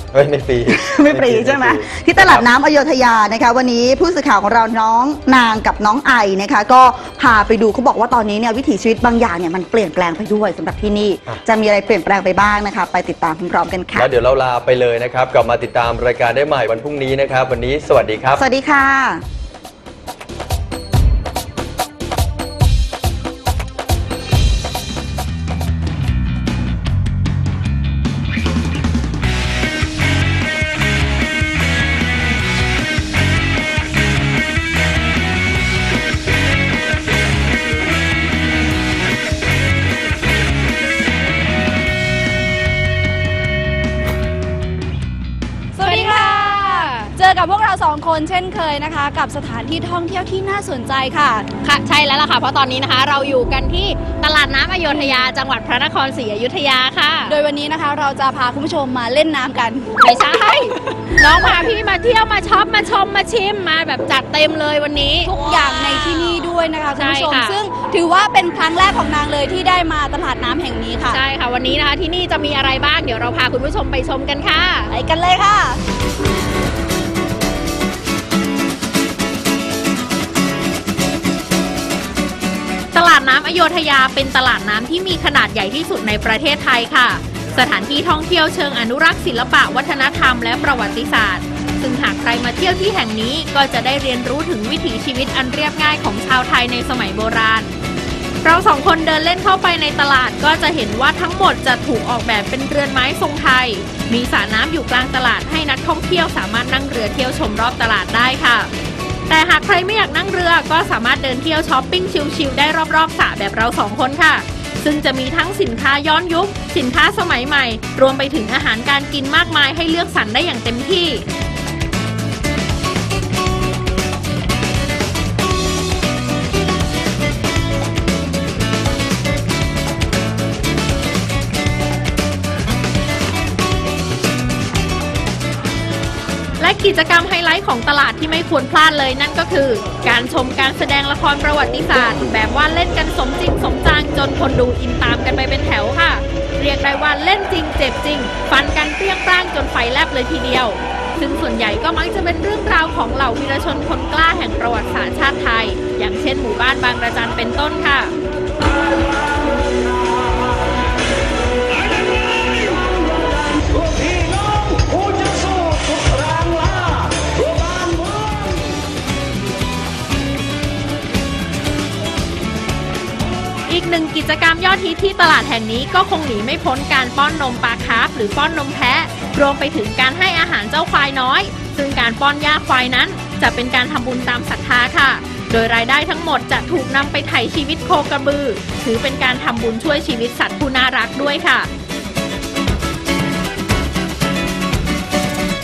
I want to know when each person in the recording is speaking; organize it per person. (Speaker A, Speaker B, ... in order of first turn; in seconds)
Speaker A: 0.1-2.5, 13.9-18.4
Speaker B: 0.7-14.1, 18.4-19.2
Speaker C: 45.8-51.5, 54.9-55.3, 57.3-59.9, 65.2-71.2, 74.9-75.8
Speaker D: 45.8-47.1, 51.6-57.4, 60.0-67.6, 71.1-74.9, 82.9-97.7, 98.4-108.7, 109.3-121.2, 136.6-158.1, 173.7-191.7